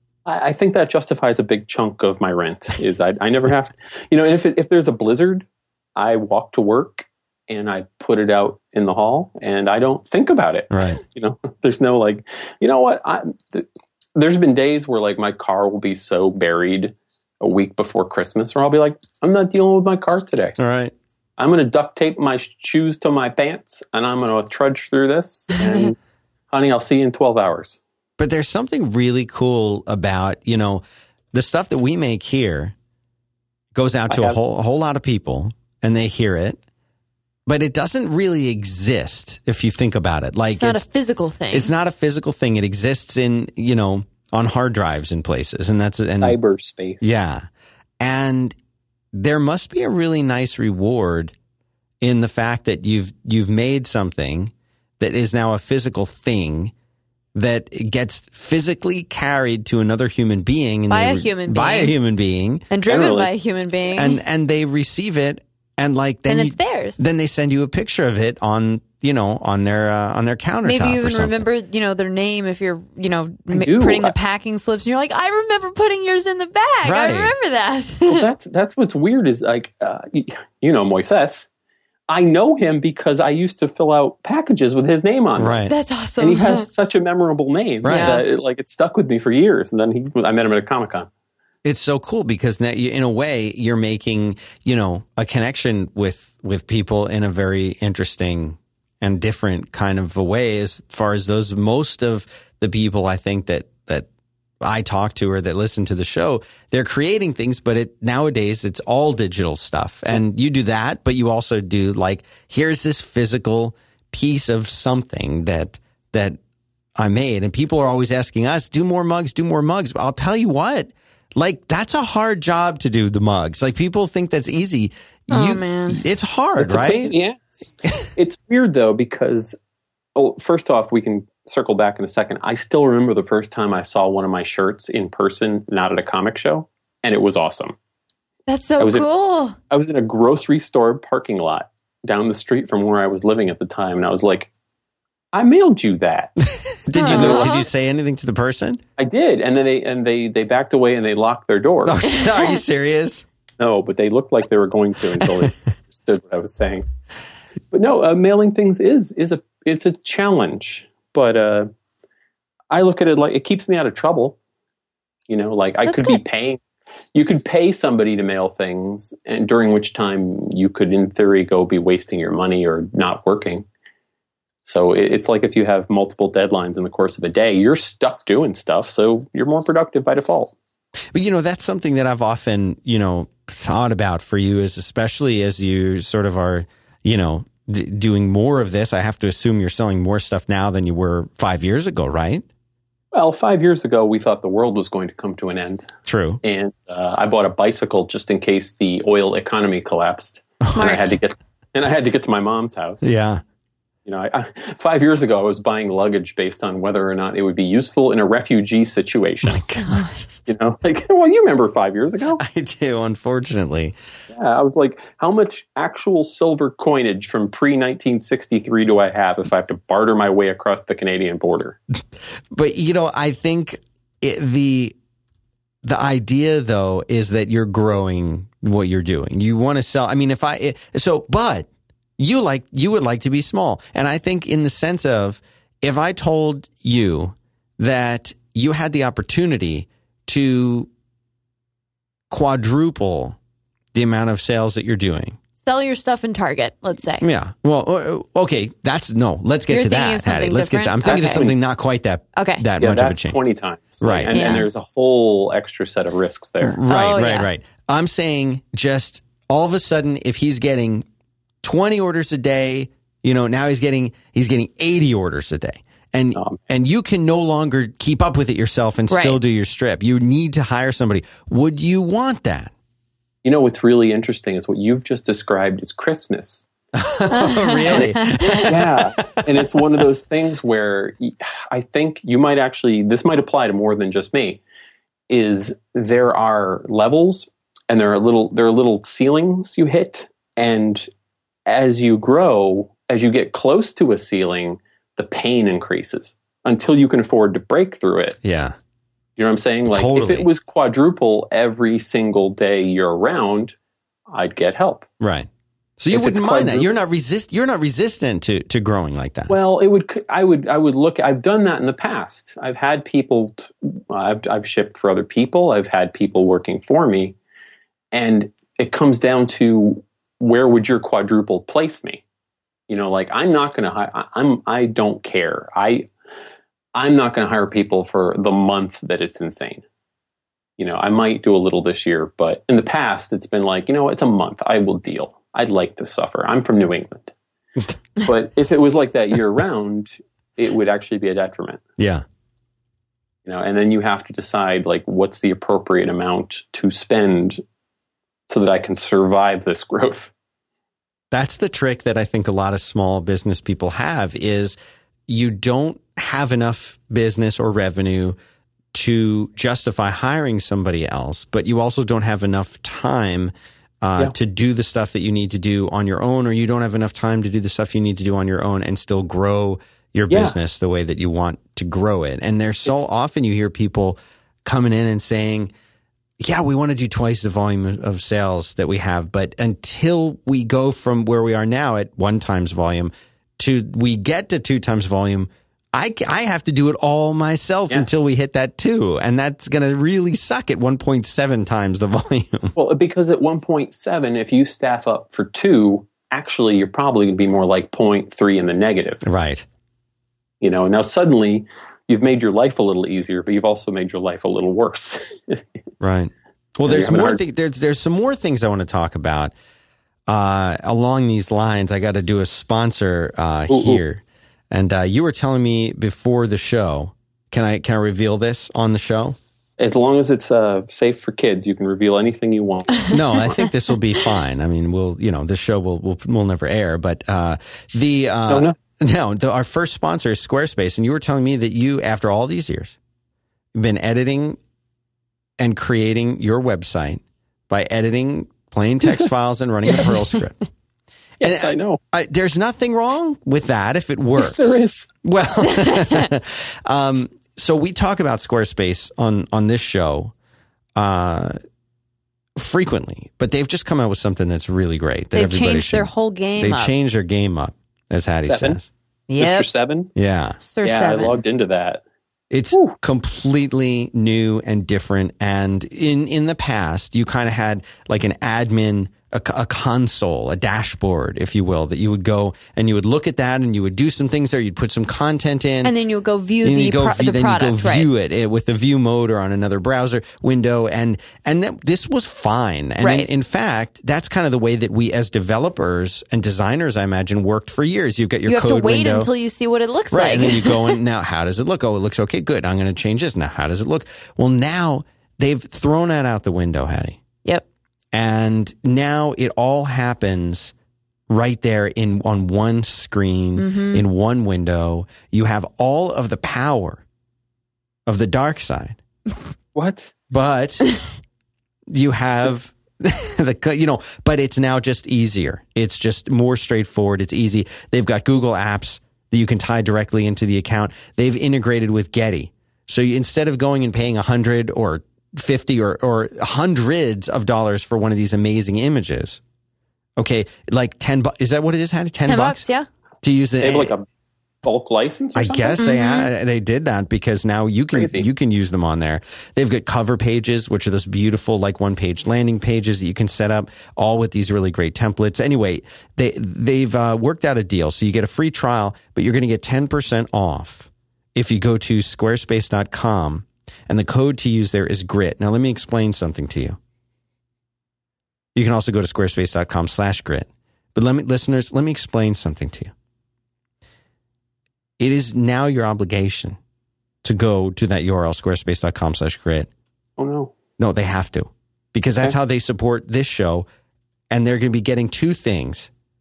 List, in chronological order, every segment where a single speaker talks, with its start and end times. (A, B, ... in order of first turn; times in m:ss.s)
0:00.3-0:20.6 A
0:10.7-0:11.0 B
0:20.6-0:20.9 B
0:21.4-0:26.0 A
0:26.5-0:27.8 A
0:28.2-0:30.8 B
0:31.3-0:32.8 B
0:33.7-0:36.6 B
0:34.1-0:34.4 A
0:37.5-0:40.8 B
0:40.6-0:41.7 C
0:41.5-0:46.4 B
0:46.2-0:47.1 A
0:47.0-0:47.5 B
0:48.0-0:48.6 B
0:49.1-0:51.3 B
0:52.0-0:56.7 B
0:57.3-1:02.6 B
1:00.9-1:02.0 C
1:02.7-1:04.2 C
1:02.9-1:03.3 A
1:03.9-1:11.5 B
1:06.3-1:07.0 C
1:10.6-1:18.3 C
1:13.5-1:14.2 A
1:16.8-1:17.3 B
1:18.0-1:21.5 A
1:22.1-1:25.6 A
1:25.4-1:25.7 B
1:25.7-1:26.7 C
1:26.2-1:31.1 A
1:27.8-1:28.2 B
1:27.9-1:28.3 C
1:31.6-1:44.1 B
1:44.6-1:56.4 B
1:57.0-2:07.1 B
2:05.3-2:06.0 C
2:06.6-2:09.6 A
2:10.2-2:17.8 A
2:18.5-2:19.6 C
2:18.8-2:19.1 A
2:19.7-2:24.5 A
2:25.3-2:26.3 A
2:26.5-2:28.8 B
2:27.0-2:27.6 C
2:27.1-2:27.5 A
2:29.0-2:32.0 A
2:31.8-2:33.2 B
2:32.1-2:32.6 C
2:33.6-2:36.8 A
2:35.2-2:35.5 B
2:37.7-2:41.7 A
2:42.7-2:44.4 A
2:45.3-2:46.6 A
2:45.9-2:46.2 C
2:47.2-2:53.7 A
2:54.6-3:00.5 A
3:01.1-3:12.4 B
3:13.1-3:15.9 A
3:16.1-3:16.4 B
3:16.4-3:23.1 A
3:20.6-3:21.0 B
3:20.7-3:21.2 C
3:23.0-3:23.4 B
3:24.1-3:29.7 A
3:29.5-3:30.3 B
3:29.8-3:30.2 C
3:30.5-3:32.4 A
3:32.4-3:34.0 B
3:34.3-3:41.8 A
3:42.5-3:45.0 B
3:45.8-4:00.9 B
4:02.3-4:03.4 B
4:03.9-4:05.4 B
4:05.6-4:07.3 C
4:07.2-4:13.4 B
4:09.7-4:11.4 C
4:11.0-4:11.6 A
4:12.4-4:12.6 C
4:12.8-4:16.8 A
4:14.0-4:14.5 B
4:14.3-4:14.7 C
4:16.6-4:21.1 B
4:16.9-4:17.5 C
4:21.6-4:32.7 B
4:26.4-4:26.6 A
4:29.1-4:29.4 C
4:33.4-4:36.7 A
4:37.0-4:39.4 B
4:37.3-4:38.7 C
4:37.9-4:44.6 A
4:45.3-4:51.1 A
4:51.7-4:58.4 A
4:58.4-4:58.8 B
4:59.4-5:03.8 A
4:59.9-5:00.5 B
5:04.3-5:05.1 A
5:05.2-5:09.5 B
5:06.1-5:06.9 A
5:09.5-5:17.4 A
5:18.1-5:22.2 A
5:22.9-5:26.1 A
5:27.0-5:29.8 A
5:30.8-5:37.3 A
5:38.2-5:41.8 A
5:42.0-5:42.2 B
5:43.4-5:47.6 A
5:48.5-5:50.3 A
5:51.3-5:54.8 B
5:55.3-5:58.4 B
5:58.9-6:15.7 B
6:10.3-6:10.6 A
6:16.4-6:32.8 B
6:27.9-6:28.2 A
6:32.8-6:39.2 A
6:39.2-6:39.6 B
6:40.6-6:45.6 A
6:46.0-6:49.5 B
6:46.9-6:47.4 A
6:50.3-6:59.4 B
6:53.7-6:54.0 A
6:59.8-7:03.4 A
7:03.1-7:13.0 B
7:08.5-7:08.8 A
7:13.8-7:14.6 B
7:15.6-7:20.6 B
7:21.4-7:22.0 A
7:21.4-7:30.3 B
7:24.4-7:25.1 A
7:25.8-7:26.3 C
7:31.0-7:31.6 B
7:32.6-7:38.9 B
7:35.3-7:36.9 C
7:38.5-7:38.8 A
7:39.3-7:39.7 C
7:39.4-7:40.1 A
7:40.2-7:40.6 B
7:40.6-7:41.4 C
7:40.8-7:42.0 A
7:42.5-7:55.9 B
7:42.7-7:43.0 A
7:55.8-7:58.1 C
7:56.6-8:09.3 B
8:03.0-8:03.3 C
8:08.5-8:11.0 C
8:10.1-8:17.2 B
8:18.1-8:20.7 B
8:21.3-8:27.0 B
8:23.6-8:24.0 C
8:28.1-8:29.0 B
8:29.8-8:30.1 A
8:30.3-8:30.9 B
8:31.9-8:49.4 B
8:50.2-8:52.6 B
8:52.3-8:52.9 C
8:53.2-8:53.9 B
8:53.6-8:54.1 A
8:54.6-8:55.8 A
8:55.4-9:16.8 B
8:55.8-8:56.3 C
8:57.9-8:58.3 A
9:18.6-9:22.9 B
9:25.0-9:26.6 B
9:27.2-9:29.7 B
9:30.2-9:30.5 A
9:30.8-9:33.7 B
9:34.3-9:35.9 B